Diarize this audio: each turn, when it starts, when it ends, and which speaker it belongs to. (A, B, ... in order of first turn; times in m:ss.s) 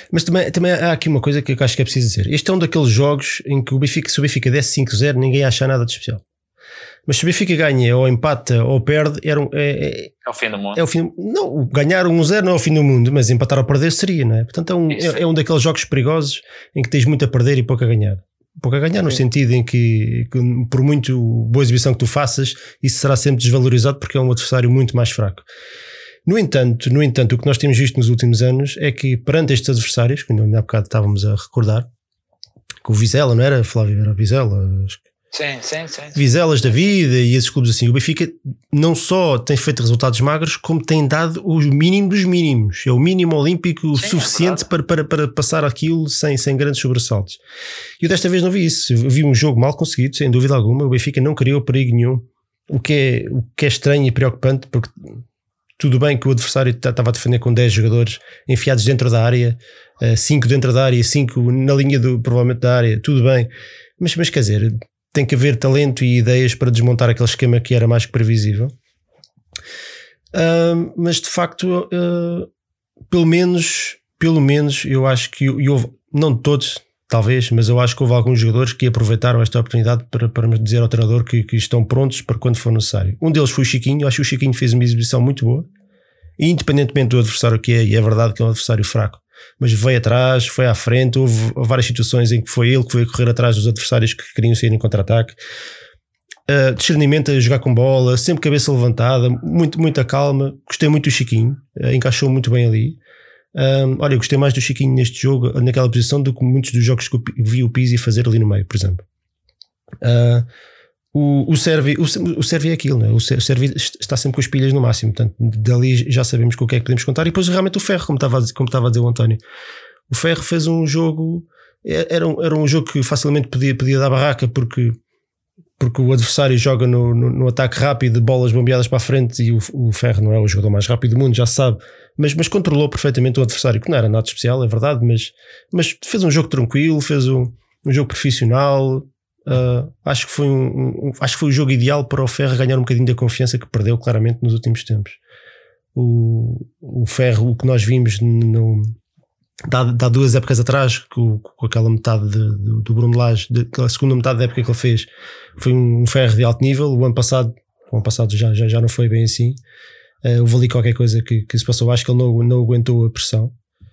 0:00.1-0:06.2 A
0:07.1-0:10.2 A
0:10.2-0:10.8 B
0:10.8-0:25.5 A
0:14.9-0:15.2 B
0:26.3-0:31.9 A
0:32.8-0:35.0 A
0:35.3-0:36.2 B
0:36.2-0:47.4 A
0:44.0-0:44.6 B
0:48.0-0:55.2 A
0:55.8-1:08.7 A
1:10.3-1:12.5 A
1:13.1-1:25.7 A
1:26.4-1:35.4 A
1:36.5-1:43.0 A
1:43.5-1:49.0 A
1:50.0-1:50.5 A
1:51.1-1:59.4 A
2:00.1-2:05.0 A
2:05.8-2:25.2 A
2:26.0-2:28.9 A
2:29.7-2:39.6 A
2:40.2-2:43.5 A